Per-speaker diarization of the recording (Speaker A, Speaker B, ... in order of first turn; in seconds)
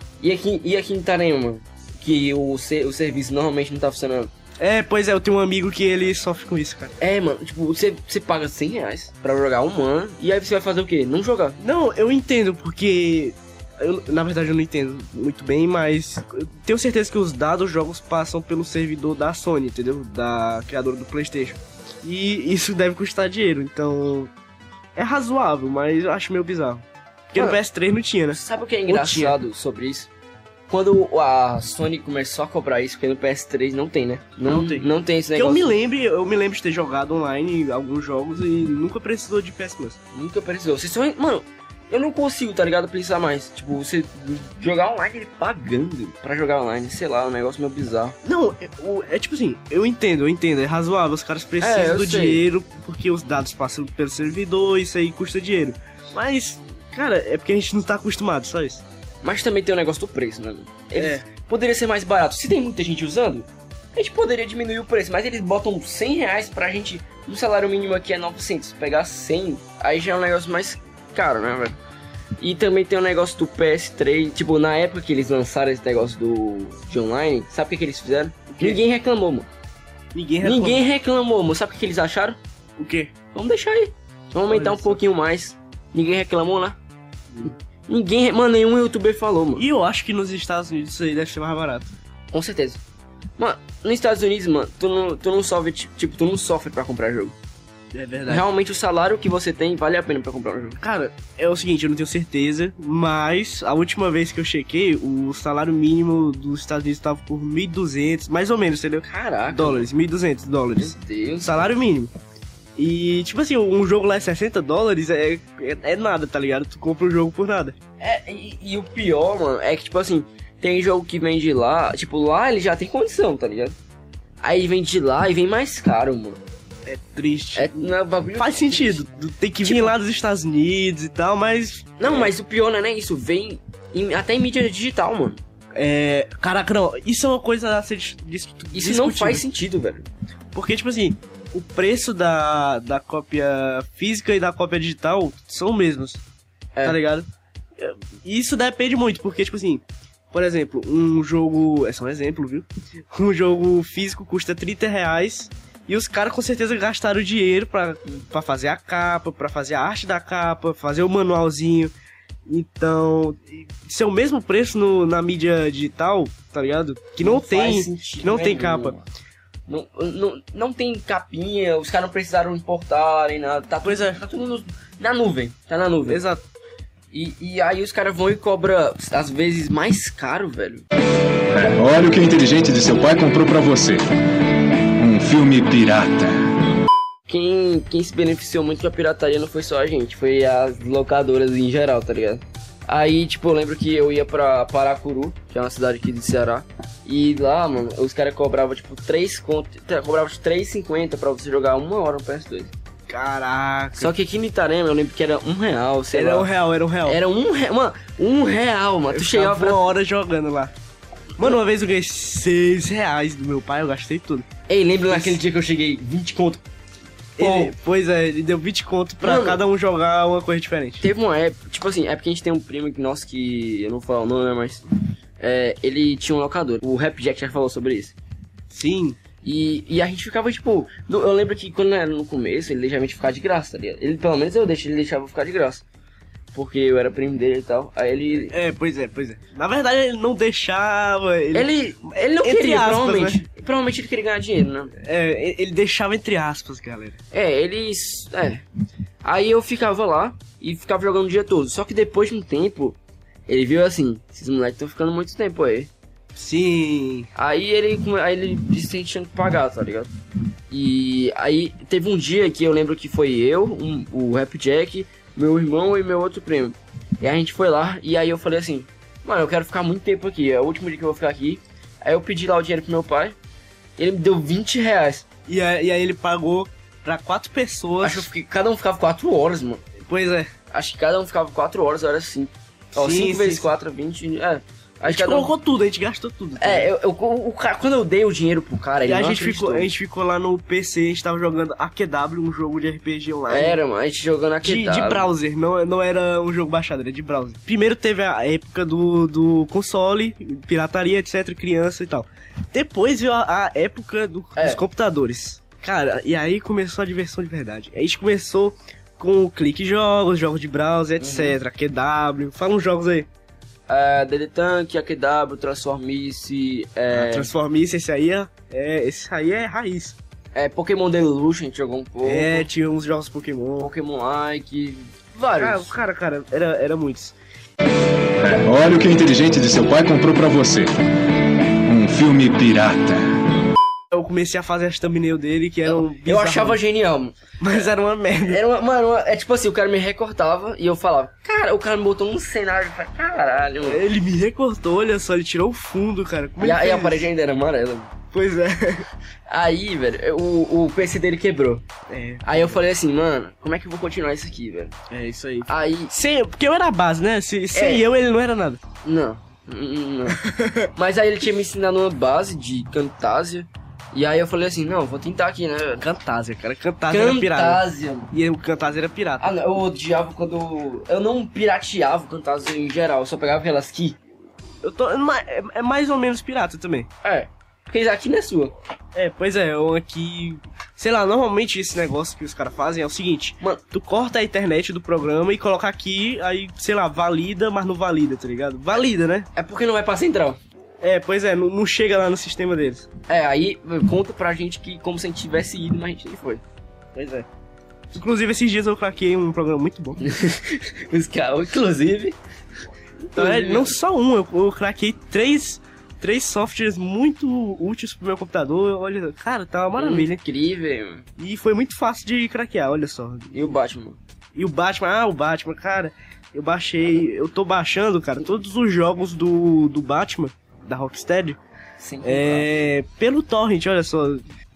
Speaker A: 0.2-4.3, 7.0-11.6, 28.4-30.1, 30.7-35.8, 40.1-48.2, 51.6-52.5, 59.2-71.8, 72.4-79.5, 80.4-82.4, 83.3-86.8, 87.9-89.7, 92.3-92.8, 93.4-97.3, 98.3-100.8, 109.0-109.9, 110.8-111.7, 118.0-123.8, 124.4-126.4, 127.6-129.1, 129.6-129.9, 132.0-135.4, 138.7-140.1, 167.2-169.1, 169.7-176.2, 177.1-180.8, 187.3-202.7, 204.0-206.5, 207.1-209.9, 214.7-216.6, 217.4-217.7, 219.2-219.6, 221.0-224.8, 225.4-228.2, 229.4-235.8, 236.5-238.6, 241.5-244.9, 247.3-248.6, 249.2-255.9, 257.4-260.1, 260.7-273.4, 274.0-275.2, 278.0-279.9, 280.7-285.5, 286.6-289.9, 293.5-295.3, 304.6-304.8, 311.2-311.6, 313.9-317.5, 320.5-322.7, 323.8-325.9, 335.9-344.0, 346.6-348.1, 349.5-351.8, 352.4-354.9, 355.7-356.1, 357.7-358.1, 359.0-360.4, 360.9-366.1, 367.1-368.3, 369.4-374.2, 377.2-378.7, 389.6-390.6, 393.3-396.6, 400.2-402.4, 403.3-403.9, 409.9-411.3, 413.5-414.2, 422.0-422.7
Speaker B: 4.6-7.0, 11.6-24.3, 25.0-29.4, 34.5-40.0, 48.2-58.8, 61.0-61.2, 78.5-78.8, 80.1-80.9, 82.8-83.1, 84.5-85.0, 89.6-91.9, 97.9-98.5, 100.8-112.1, 112.8-117.8, 126.9-132.3, 135.8-139.4, 140.5-146.2, 146.8-147.3, 147.8-161.9, 162.5-168.9, 173.8-174.2, 176.1-176.4, 203.1-204.1, 206.1-207.2, 209.1-210.7, 211.4-214.4, 215.1-215.4, 217.4-221.1, 228.7-229.2, 238.5-241.7, 242.4-243.4, 245.0-247.2, 256.4-257.3, 275.5-278.3, 280.1-280.5, 283.0-283.7, 285.1-286.9, 289.1-293.8, 294.6-313.3, 317.1-320.2, 322.2-323.9, 325.6-327.4, 334.1-336.8, 337.6-338.6, 343.8-347.3, 348.3-349.1, 352.1-352.8, 355.1-358.8, 360.3-360.9, 366.0-369.5, 374.8-377.1, 379.1-389.5, 391.0-393.1, 397.1-397.5, 398.1-400.2, 403.4-410.4, 411.4-413.7, 414.6-421.6, 422.2-424.4
Speaker C: 181.5-184.1, 185.0-186.5, 328.4-330.9, 331.9-333.4